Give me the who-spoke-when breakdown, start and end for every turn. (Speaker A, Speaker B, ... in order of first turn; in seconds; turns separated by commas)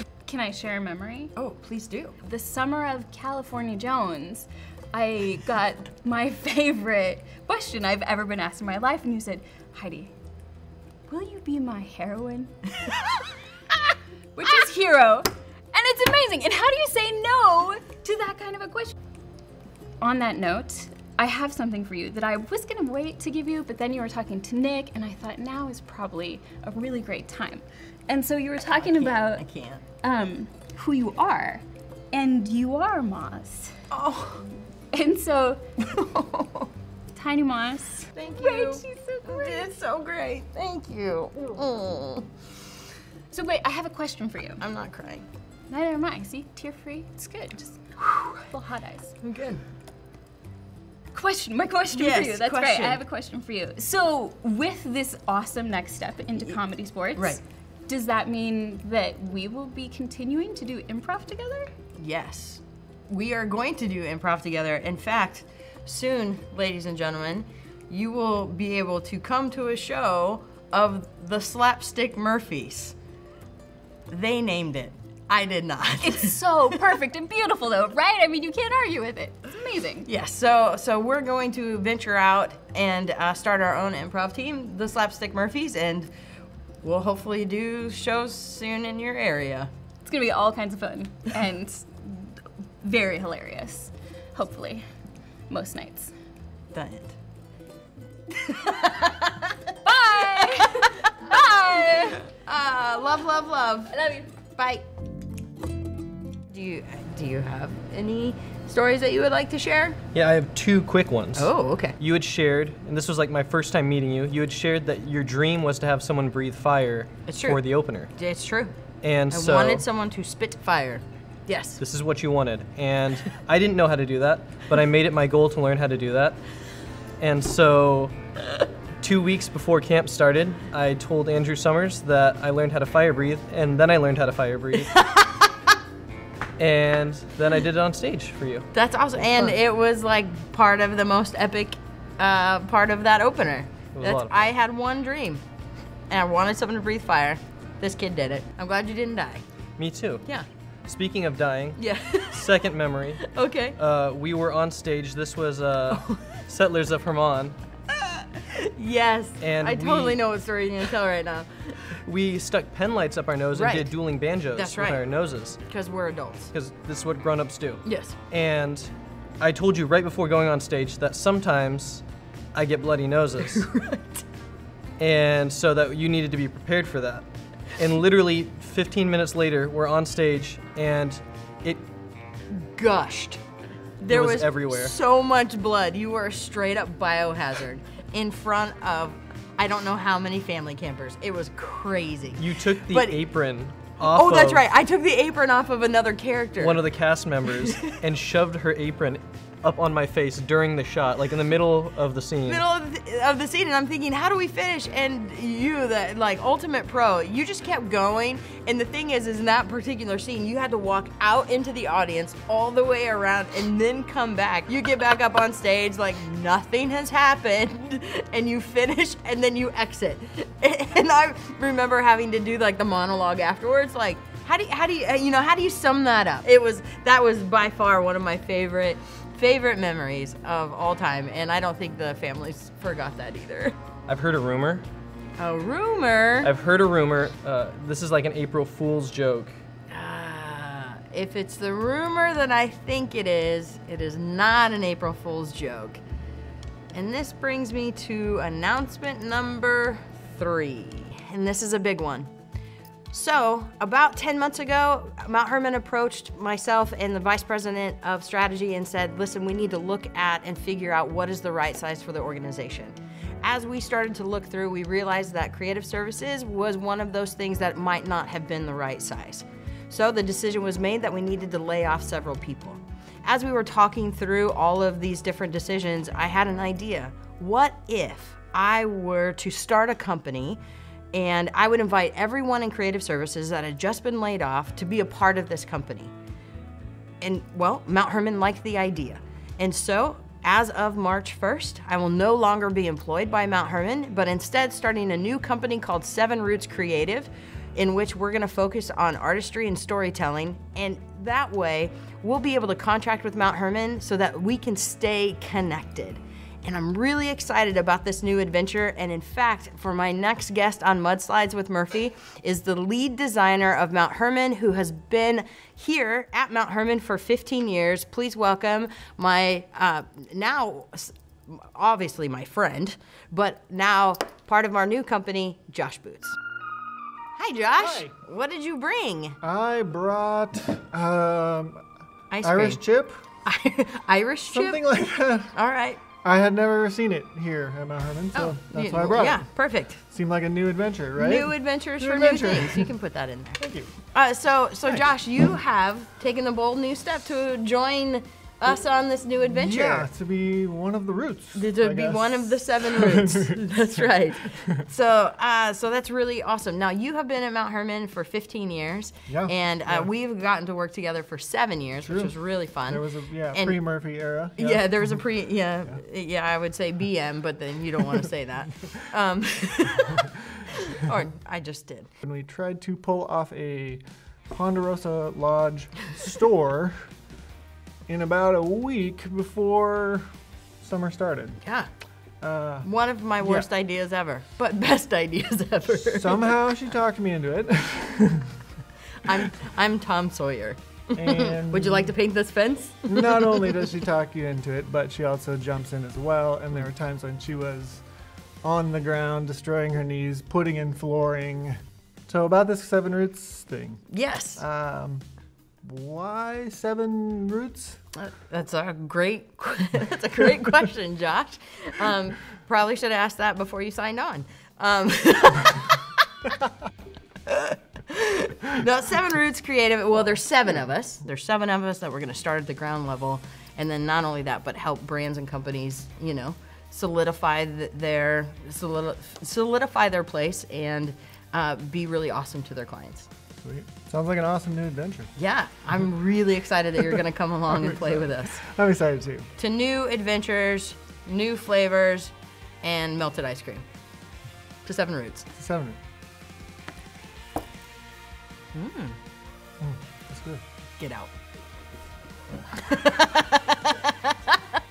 Speaker A: 0.3-1.3, Speaker B: 1.4-2.1, Speaker A: 2.2-10.1, Speaker A: 11.1-12.9, Speaker A: 13.9-18.9, Speaker A: 20.0-29.4, Speaker B: 28.7-29.8, Speaker A: 30.0-33.7, Speaker B: 33.9-34.5, Speaker A: 34.9-35.6, Speaker B: 35.9-36.7, Speaker A: 37.1-39.7, Speaker B: 38.1-42.3, Speaker A: 43.3-44.6, Speaker B: 44.6-45.2, Speaker A: 45.7-47.8, Speaker B: 48.0-48.4, Speaker A: 48.5-49.1, Speaker B: 49.2-49.6, Speaker A: 51.1-61.7, Speaker B: 51.9-53.0, Speaker B: 57.1-57.4, Speaker B: 62.0-73.0, Speaker B: 74.1-76.7, Speaker A: 76.0-80.1, Speaker B: 80.0-86.1, Speaker B: 86.8-89.7, Speaker A: 90.0-94.9, Speaker A: 95.5-96.1, Speaker B: 96.7-97.1, Speaker B: 98.4-99.7, Speaker A: 99.8-102.3, Speaker B: 100.3-100.9, Speaker B: 102.3-104.8, Speaker A: 104.0-104.2, Speaker B: 106.5-110.0, Speaker C: 110.1-118.1, Speaker B: 111.3-112.0, Speaker B: 117.3-118.7, Speaker C: 119.0-119.8, Speaker B: 119.3-121.8, Speaker C: 121.8-126.4, Speaker C: 127.2-128.2, Speaker C: 129.0-134.9, Speaker B: 134.9-135.6, Speaker C: 136.6-138.7, Speaker B: 138.7-145.4, Speaker C: 143.9-144.4, Speaker B: 146.1-149.4, Speaker C: 149.8-150.2, Speaker C: 150.8-153.2, Speaker B: 151.8-152.5, Speaker B: 153.2-153.8, Speaker C: 153.8-157.6, Speaker B: 155.9-156.2, Speaker B: 158.0-161.8, Speaker C: 159.4-160.2, Speaker C: 162.0-165.6, Speaker B: 163.5-163.9, Speaker B: 164.5-166.5, Speaker C: 166.5-173.7, Speaker B: 167.8-168.2, Speaker B: 173.5-174.2, Speaker C: 175.0-177.2, Speaker C: 177.8-181.8, Speaker B: 182.5-183.4, Speaker B: 184.0-193.2, Speaker C: 184.0-184.9, Speaker C: 192.4-194.6, Speaker B: 194.0-196.8, Speaker C: 196.6-202.6, Speaker B: 197.7-197.9, Speaker B: 202.5-233.8, Speaker C: 234.1-234.9, Speaker B: 235.4-236.5, Speaker C: 236.4-239.5, Speaker B: 239.9-246.0, Speaker B: 246.9-252.3, Speaker B: 253.1-280.6, Speaker B: 281.1-286.1, Speaker B: 287.2-326.4, Speaker B: 327.4-329.4, Speaker D: 327.8-328.1, Speaker D: 329.4-331.8, Speaker B: 332.3-332.8, Speaker D: 332.4-333.2, Speaker B: 333.4-334.9, Speaker D: 334.5-335.6, Speaker B: 335.5-336.0, Speaker D: 336.2-339.5, Speaker B: 338.3-340.0, Speaker D: 340.0-342.9, Speaker B: 341.2-350.1, Speaker D: 343.6-343.9, Speaker D: 349.5-353.9, Speaker B: 351.6-363.8, Speaker D: 359.3-360.1, Speaker D: 362.0-362.4, Speaker D: 362.9-365.2, Speaker B: 364.6-372.1, Speaker D: 372.2-377.0, Speaker D: 378.1-380.3, Speaker D: 380.8-381.6, Speaker B: 381.6-381.9, Speaker D: 382.4-382.9, Speaker B: 382.8-386.7, Speaker D: 383.4-383.7, Speaker D: 385.9-388.5, Speaker B: 389.2-393.8, Speaker D: 391.2-392.1, Speaker D: 393.1-398.0, Speaker D: 398.6-404.0, Speaker B: 404.1-404.6, Speaker D: 404.6-405.2, Speaker D: 405.8-408.0, Speaker B: 408.1-416.2, Speaker B: 417.5-433.3, Speaker D: 433.6-435.3, Speaker B: 435.4-438.6, Speaker D: 437.8-439.5, Speaker B: 439.6-443.9, Speaker B: 444.9-445.5, Speaker D: 445.6-446.0, Speaker B: 448.7-449.2, Speaker D: 449.8-450.6, Speaker B: 451.0-451.3, Speaker B: 452.8-454.6